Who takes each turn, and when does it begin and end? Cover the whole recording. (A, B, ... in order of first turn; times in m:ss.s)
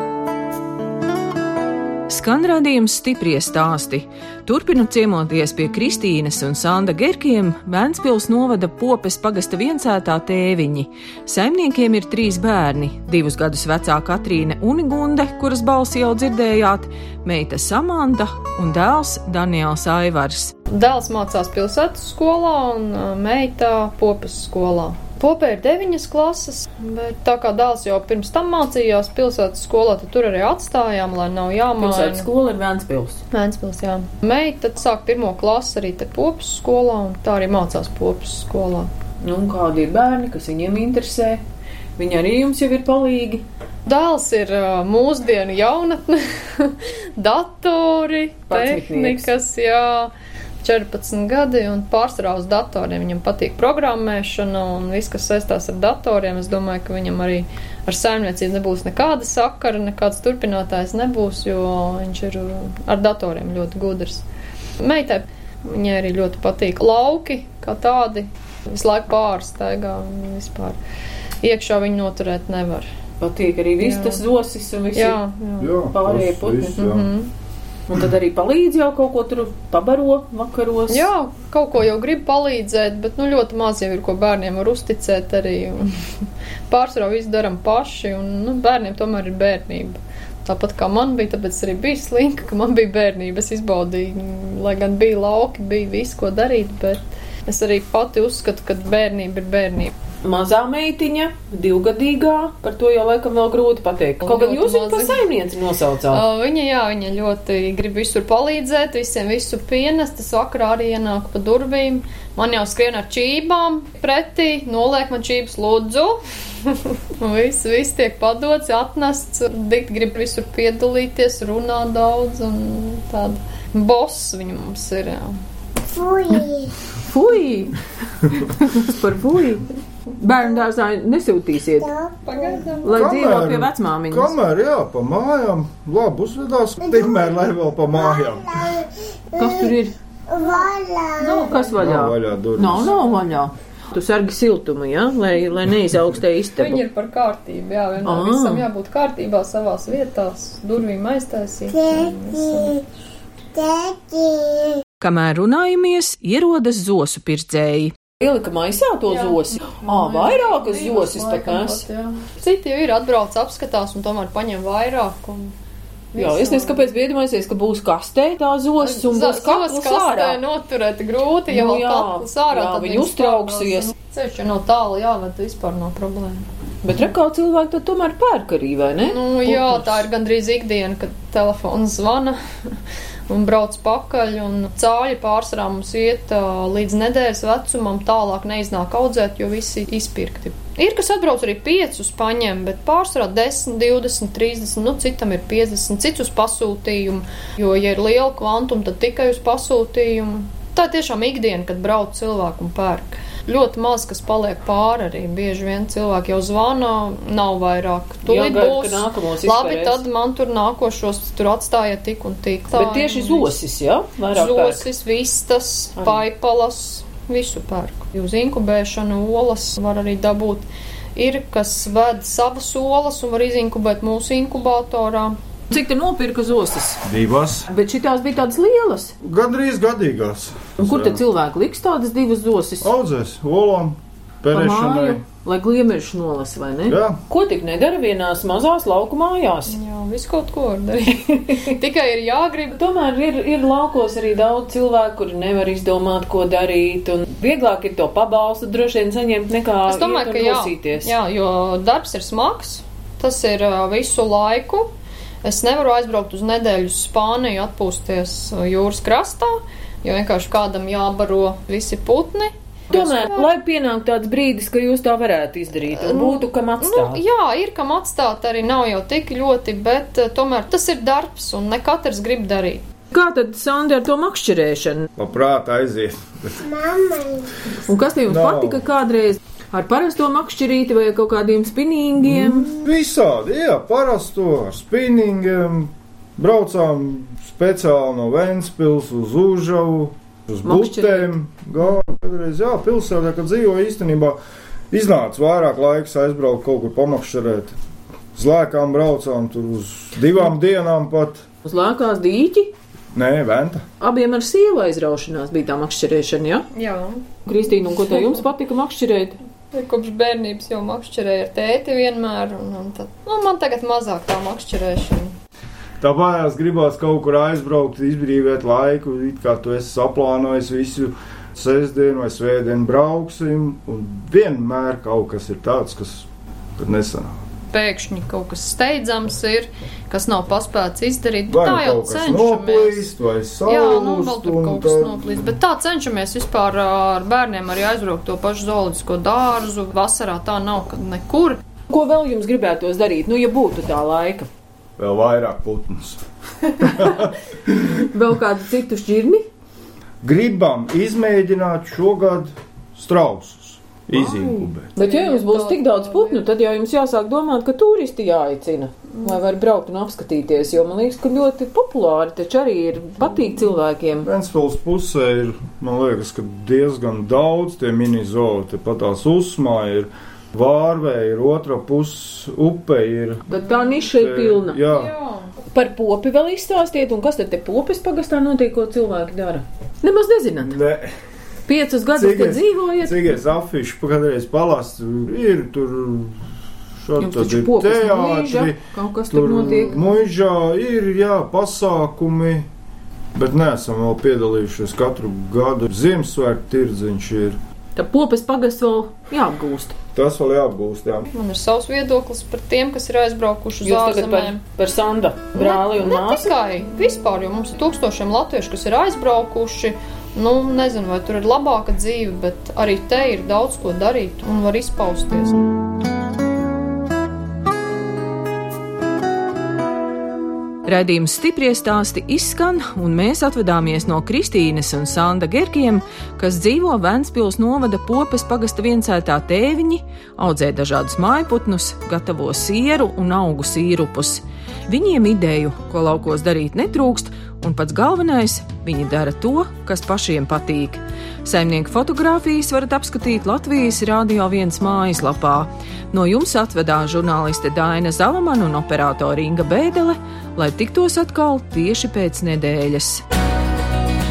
0:02.1-0:20.5 A
0:20.7-0:32.3 B
0:31.8-0:33.2 A
0:33.3-0:38.9 B
0:39.2-0:41.4 A
0:42.0-0:43.4 A
0:43.9-1:04.2 B
0:48.5-0:49.3 A
1:04.8-1:10.8 B
1:11.4-1:12.9 B
1:13.2-1:15.2 A
1:13.8-1:14.2 B
1:15.0-1:15.7 B
1:15.6-1:17.1 C
1:15.9-1:16.9 A
1:16.8-1:17.3 B
1:17.9-1:21.1 A
1:20.9-1:26.0 B
1:26.7-1:39.9 B
1:40.2-1:46.2 A
1:44.2-1:45.2 B
1:46.1-2:05.4 B
2:06.0-2:06.6 B
2:07.0-2:07.8 A
2:08.3-2:09.7 A
2:10.2-2:12.0 A
2:12.2-2:13.1 B
2:12.8-2:14.3 A
2:12.9-2:18.9 C
2:19.3-2:19.9 A
2:21.0-2:21.8 B
2:21.2-2:26.8 A
2:21.8-2:23.0 C
2:26.6-2:32.8 B
2:28.0-2:28.7 A
2:33.7-2:33.9 B
2:35.0-2:41.8 A
2:39.1-2:45.5 B
2:46.1-2:46.9 B
2:46.2-2:50.4 A
2:48.8-2:56.5 B
2:51.5-2:53.9 A
2:56.8-3:00.1 A
2:59.0-3:02.4 B
3:03.3-3:33.5 B
3:28.3-3:30.0 A
3:32.7-3:34.8 A
3:34.3-3:45.4 B
3:45.7-3:47.0 A
3:47.0-3:47.7 C
3:47.7-3:49.1 A
3:49.2-3:51.2 C
3:50.8-3:52.9 A
3:52.8-3:55.2 C
3:54.5-3:59.8 A
3:56.9-3:57.2 C
3:59.7-4:02.8 B
4:02.8-4:11.1 A
4:09.9-4:14.9 B
4:15.4-4:23.5 B
4:22.9-4:27.2 A
4:26.0-4:32.8 B
4:33.1-4:35.1 A
4:35.2-4:37.4 C
4:37.9-4:42.8 A
4:38.3-4:38.8 C
4:42.3-4:54.4 C
4:50.6-4:51.4 A
4:54.9-4:57.8 C
4:58.4-5:01.4 C
5:01.6-5:02.7 A
5:03.1-5:03.8 C
5:04.0-5:06.7 A
5:06.7-5:07.3 B
5:07.5-5:09.4 A
5:09.7-5:15.3 B
5:16.0-5:27.4 C
5:27.7-5:33.1 B
5:31.5-5:35.5 C
5:33.7-5:41.6 B
5:41.9-5:44.5 A
5:45.0-5:46.2 C
5:46.8-5:47.9 C
5:48.0-5:49.5 A
5:50.2-5:54.9 C
5:54.2-6:04.3 A
5:55.0-5:56.5 B
6:04.2-6:13.5 C
6:13.5-6:14.8 A
6:14.0-6:15.1 C
6:14.9-6:15.6 B
6:15.7-6:20.8 A
6:20.6-6:21.1 C
6:21.7-6:23.2 A
6:22.1-6:26.4 C
6:27.0-6:28.8 C
6:27.2-6:30.1 A
6:29.3-6:32.7 C
6:33.4-6:37.6 C
6:38.0-6:40.0 A
6:40.1-6:41.3 C
6:41.3-6:44.6 B
6:43.8-6:46.5 A
6:45.6-6:55.6 B
7:00.9-7:33.2 A